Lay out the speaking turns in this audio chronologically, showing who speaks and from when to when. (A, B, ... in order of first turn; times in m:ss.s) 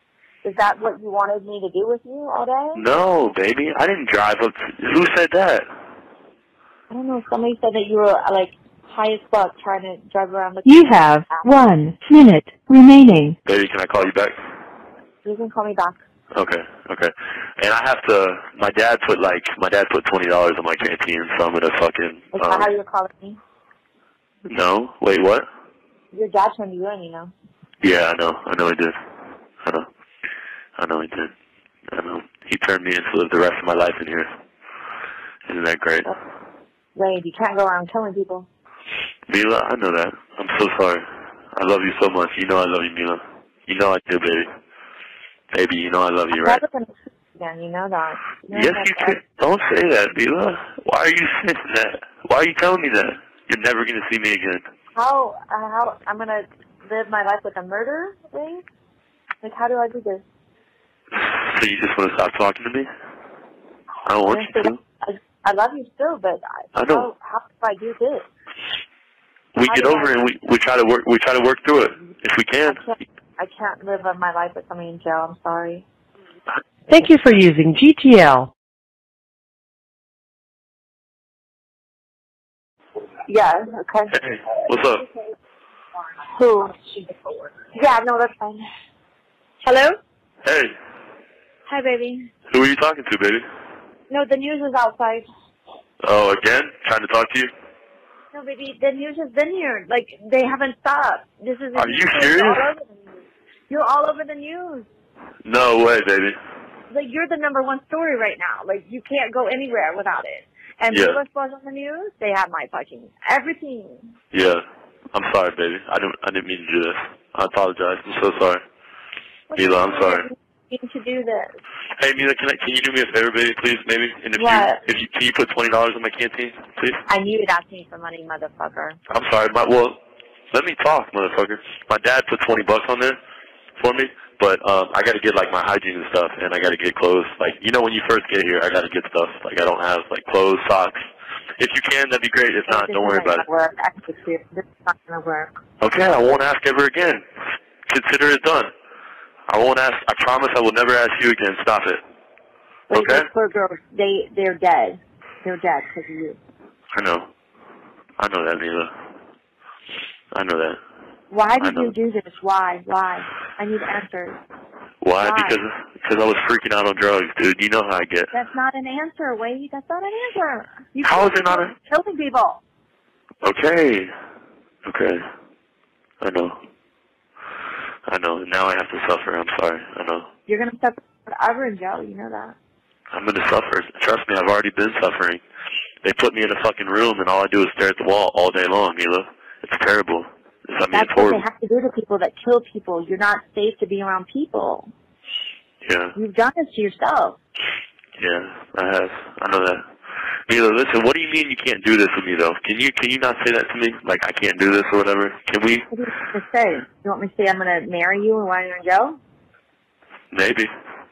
0:00.4-0:02.8 A
0:02.7-0:05.6 B
0:06.9-0:11.6 A
0:10.6-0:13.4 C
0:13.4-0:14.4 B
0:15.2-0:16.0 A
0:16.3-0:22.7 B
0:22.3-0:23.4 A
0:24.4-0:25.4 B
0:26.1-0:27.3 A
0:27.8-0:29.0 B
0:30.8-0:31.3 B
0:31.9-0:34.3 B
0:35.4-0:36.1 B
0:36.9-0:38.5 A
0:39.3-0:44.5 B
0:45.5-0:46.6 B
0:46.3-0:49.2 A
0:48.5-0:54.6 B
0:54.9-0:58.6 A
0:59.4-1:00.2 A
1:01.1-1:02.9 B
1:04.0-1:04.8 B
1:04.3-1:08.2 A
1:06.7-1:07.1 B
1:09.5-1:12.8 B
1:09.7-1:10.1 A
1:12.6-1:15.8 A
1:16.9-1:18.5 C
1:23.3-1:24.1 A
1:24.1-1:25.0 B
1:24.9-1:25.3 A
1:26.2-1:28.6 A
1:29.6-1:30.0 A
1:30.4-1:30.7 B
1:31.6-1:32.3 A
1:32.5-1:33.4 B
1:34.1-1:35.2 A
1:36.0-1:37.5 B
1:38.3-1:44.9 A
1:41.7-1:42.6 B
1:45.4-1:46.4 B
1:46.9-1:54.1 A
1:50.9-1:51.2 B
1:54.3-1:58.6 B
1:59.5-2:01.5 A
1:59.6-2:00.2 B
2:02.0-2:07.0 B
2:04.3-2:04.8 A
2:07.1-2:09.0 A
2:09.1-2:10.0 B
2:10.5-2:13.2 B
2:13.8-2:21.0 B
2:21.6-2:23.4 B
2:22.7-2:25.6 A
2:25.8-2:27.2 B
2:27.9-2:28.7 B
2:29.5-2:32.0 B
2:32.9-2:36.4 A
2:32.9-2:33.3 B
2:36.9-2:37.3 B
2:38.2-2:38.9 B
2:40.3-2:40.8 B
2:41.3-2:44.4 A
2:41.6-2:41.9 B
2:45.0-2:48.3 B
2:45.2-2:45.6 A
2:48.3-2:52.6 A
2:51.0-2:51.7 B
2:53.4-2:54.1 B
2:54.8-2:55.2 B
2:56.2-2:56.6 B
2:58.1-3:00.3 B
3:00.5-3:02.5 A
3:03.1-3:05.4 B
3:06.0-3:11.4 B
3:10.9-3:14.9 A
3:15.8-3:16.1 B
3:16.2-3:17.4 A
3:18.2-3:19.8 B
3:20.5-3:25.8 B
3:25.9-3:29.2 A
3:30.3-3:30.7 B